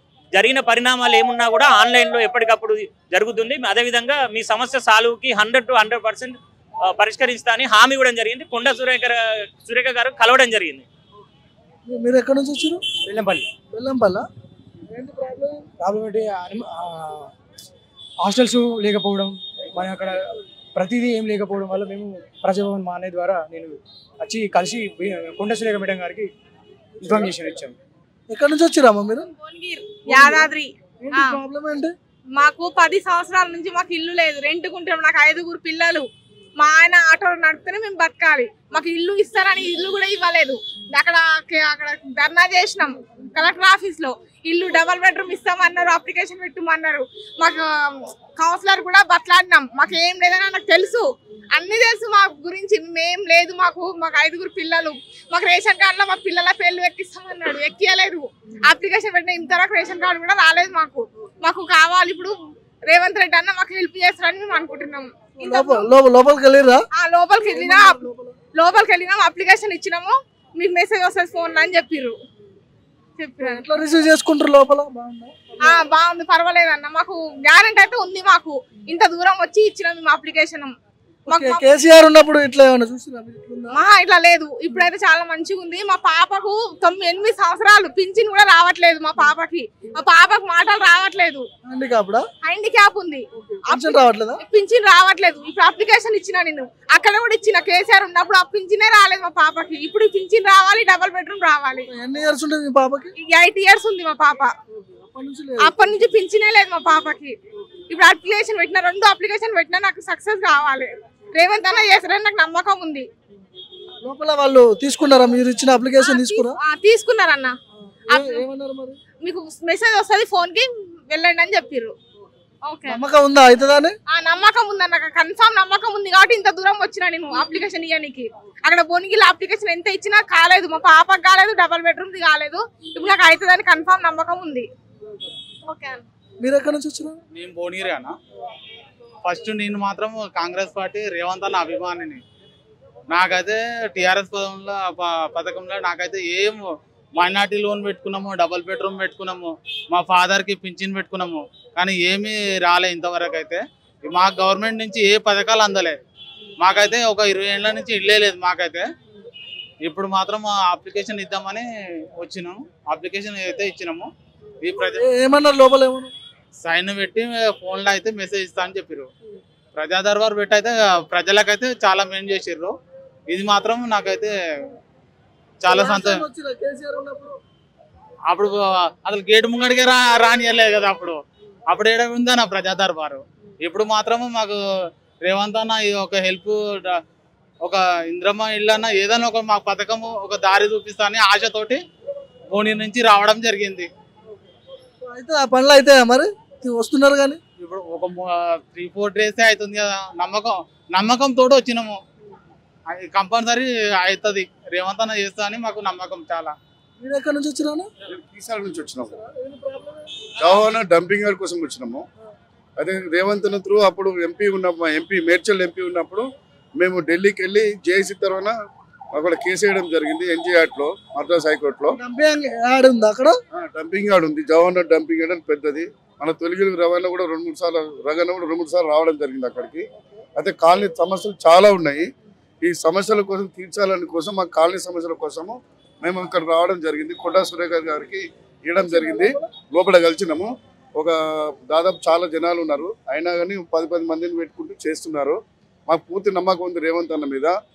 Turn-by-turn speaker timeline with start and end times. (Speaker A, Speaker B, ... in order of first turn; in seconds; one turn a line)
Speaker A: 0.3-6.3
Speaker A: 6.9-10.8
Speaker B: 11.9-12.8
Speaker C: 13.1-13.5
Speaker B: 13.7-14.2
Speaker B: 14.9-15.7
Speaker C: 15.8-17.3
Speaker C: 18.2-26.3
Speaker C: 27.0-27.8
Speaker B: 28.3-29.3
Speaker D: 29.4-31.3
Speaker B: 30.1-30.5
Speaker B: 31.0-31.9
Speaker D: 32.4-36.1
Speaker D: 36.6-62.3
Speaker D: 62.9-65.8
Speaker B: 65.4-66.8
Speaker D: 67.0-68.0
Speaker B: 67.5-68.3
Speaker D: 68.5-72.2
Speaker D: 73.2-73.7
Speaker B: 73.4-75.8
Speaker D: 75.7-80.7
Speaker B: 81.3-83.8
Speaker D: 81.3-81.6
Speaker D: 83.7-91.5
Speaker B: 91.7-92.2
Speaker D: 92.4-101.9
Speaker B: 93.3-94.4
Speaker B: 101.9-103.1
Speaker D: 103.2-104.5
Speaker B: 105.1-105.8
Speaker D: 105.6-107.3
Speaker D: 107.9-113.0
Speaker B: 114.0-116.6
Speaker D: 116.0-117.5
Speaker B: 118.1-119.0
Speaker D: 118.1-118.4
Speaker D: 119.2-121.9
Speaker D: 122.7-123.0
Speaker B: 122.9-124.0
Speaker D: 124.1-134.7
Speaker D: 135.7-136.0
Speaker B: 136.4-137.2
Speaker E: 137.3-138.1
Speaker E: 139.2-142.2
Speaker E: 143.1-156.0
Speaker E: 156.6-158.8
Speaker E: 159.8-161.7
Speaker E: 162.2-164.1
Speaker E: 164.6-165.0
Speaker B: 165.0-166.1
Speaker E: 166.6-169.1
Speaker E: 169.8-172.7
Speaker E: 173.3-174.3
Speaker E: 175.6-176.2
Speaker B: 175.7-177.3
Speaker E: 178.3-184.6
Speaker E: 185.2-187.0
Speaker E: 187.6-191.8
Speaker E: 192.5-193.9
Speaker B: 195.1-197.4
Speaker E: 197.6-202.0
Speaker E: 202.9-206.5
Speaker B: 207.0-207.9
Speaker F: 208.1-209.2
Speaker B: 209.3-210.0
Speaker F: 210.4-212.0
Speaker F: 212.8-216.3
Speaker F: 216.8-218.5
Speaker F: 219.1-221.9
Speaker B: 222.0-223.3
Speaker F: 223.5-229.8
Speaker F: 230.4-232.1
Speaker F: 232.6-247.6
Speaker B: 238.8-239.5